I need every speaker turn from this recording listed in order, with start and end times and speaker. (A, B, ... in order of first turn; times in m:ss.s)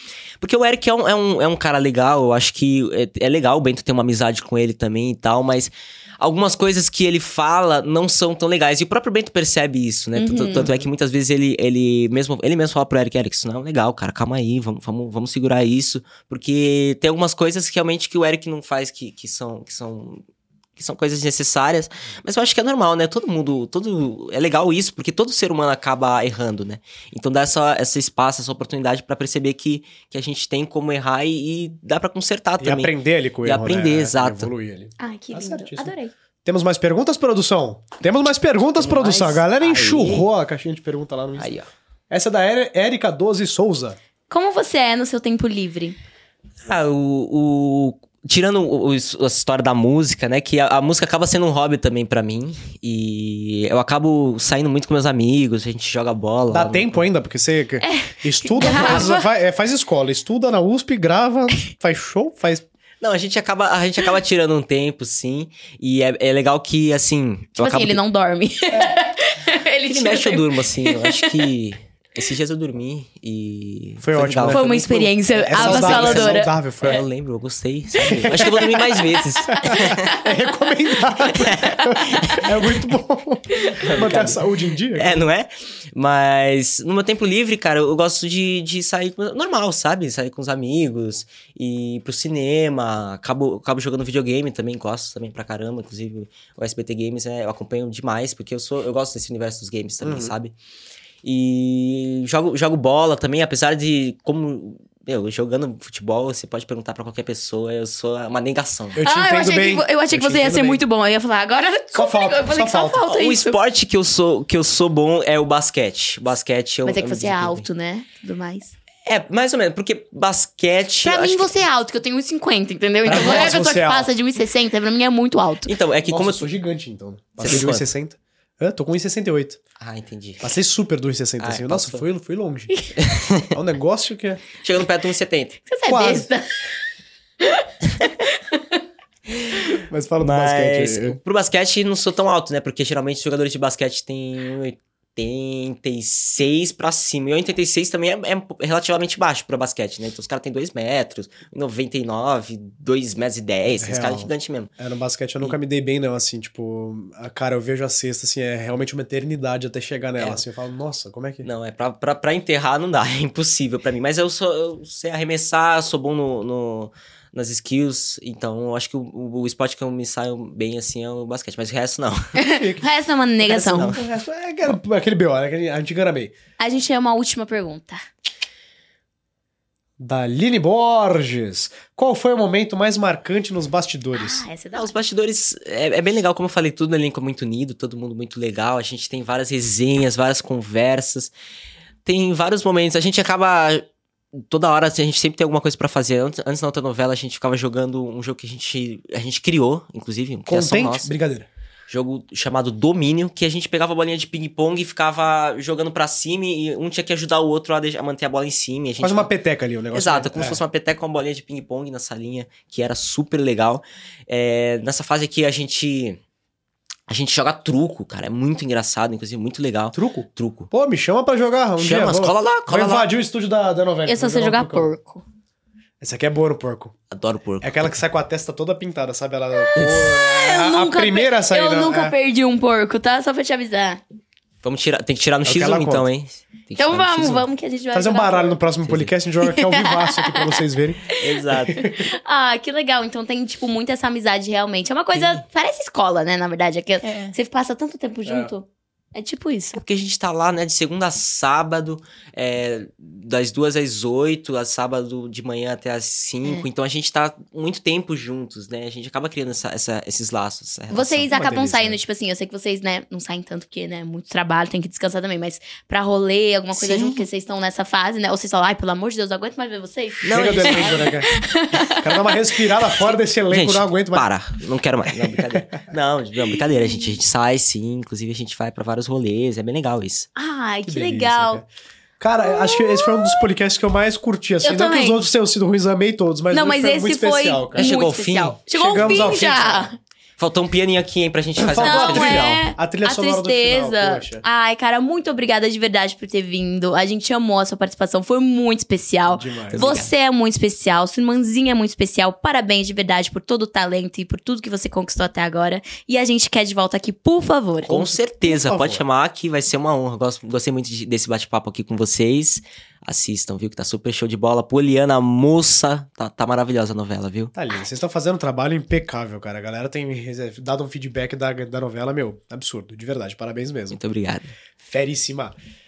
0:00.4-0:20.2 A
0:10.2-0:10.7 B
0:20.8-0:34.5 A
0:32.6-0:41.5 C
0:35.0-0:36.1 B
0:38.8-0:40.3 A
0:41.4-0:41.7 A
0:42.1-0:44.0 C
0:44.3-0:46.0 B
0:46.6-0:57.1 A
0:56.5-1:02.6 C
0:57.8-0:59.2 B
1:03.0-1:08.0 A
1:07.6-1:11.4 B
1:09.9-1:20.1 A
1:14.0-1:17.0 C
1:14.5-1:16.5 B
1:18.0-1:20.5 B
1:18.0-1:18.7 C
1:19.5-1:25.2 C
1:21.2-1:22.4 B
1:21.4-1:22.5 A
1:23.5-1:23.9 B
1:23.8-1:24.4 A
1:24.9-1:40.5 A
1:40.0-1:40.3 C
1:41.2-1:49.0 A
1:48.9-1:50.8 C
1:49.0-1:53.6 B
1:51.9-1:53.0 C
1:53.0-1:57.6 A
1:56.8-1:58.7 B
1:59.0-2:01.5 A
2:01.0-2:05.7 B
2:03.0-2:04.1 C
2:05.6-2:06.5 A
2:06.1-2:09.6 C
2:07.4-2:07.9 A
2:09.8-2:10.5 A
2:10.4-2:12.8 C
2:11.4-2:12.1 A
2:13.0-2:13.5 A
2:13.5-2:14.4 C
2:14.6-2:15.6 A
2:15.7-2:16.5 B
2:15.8-2:16.3 C
2:17.4-2:18.6 B
2:19.4-2:34.7 A
2:19.9-2:21.2 C
2:33.8-2:41.5 C
2:40.2-2:40.4 A
2:41.4-2:52.4 A
2:52.4-2:54.0 B
2:52.6-2:52.8 C
2:53.4-2:54.0 A
2:53.4-2:56.3 C
2:56.6-2:58.0 B
3:00.0-3:04.4 C
3:04.1-3:05.0 B
3:04.7-3:11.3 A
3:12.0-3:21.1 A
3:20.5-3:21.5 C
3:21.9-3:29.3 A
3:29.0-3:30.6 C
3:29.9-3:36.2 A
3:37.1-3:40.7 A
3:39.9-3:44.9 C
3:41.8-3:43.1 A
3:44.1-3:45.2 B
3:46.0-3:47.0 C
3:47.1-3:48.0 A
3:47.6-3:52.2 C
3:49.8-3:54.0 B
3:54.6-3:57.4 A
3:55.4-3:56.1 C
3:56.8-3:58.6 B
3:57.9-4:02.0 C
3:58.8-3:59.1 A
3:59.4-4:00.6 B
4:01.2-4:01.8 A
4:01.8-4:09.8 B
4:05.1-4:05.4 A
4:07.0-4:07.3 A
4:08.2-4:08.5 C
4:09.7-4:21.3 A
4:20.9-4:33.0 B
4:21.3-4:22.0 C
4:26.7-4:27.2 A
4:30.2-4:31.1 A
4:30.3-4:31.3 C
4:31.9-4:34.3 C
4:33.5-4:40.3 A
4:35.2-4:35.6 C
4:40.4-4:41.6 B
4:40.9-4:41.6 C
4:42.2-4:47.9 C
4:42.4-4:43.4 B
4:44.6-4:45.2 B
4:46.5-4:50.0 B
4:47.8-4:48.6 A
4:48.7-4:49.9 C
4:50.4-4:52.6 A
4:51.6-4:54.4 C
4:51.8-5:08.0 B
4:59.3-4:59.9 C
4:59.7-5:00.1 A
5:07.8-5:09.0 C
5:07.8-5:17.5 A
5:17.5-5:24.0 C
5:23.9-5:24.5 A
5:24.8-5:25.5 C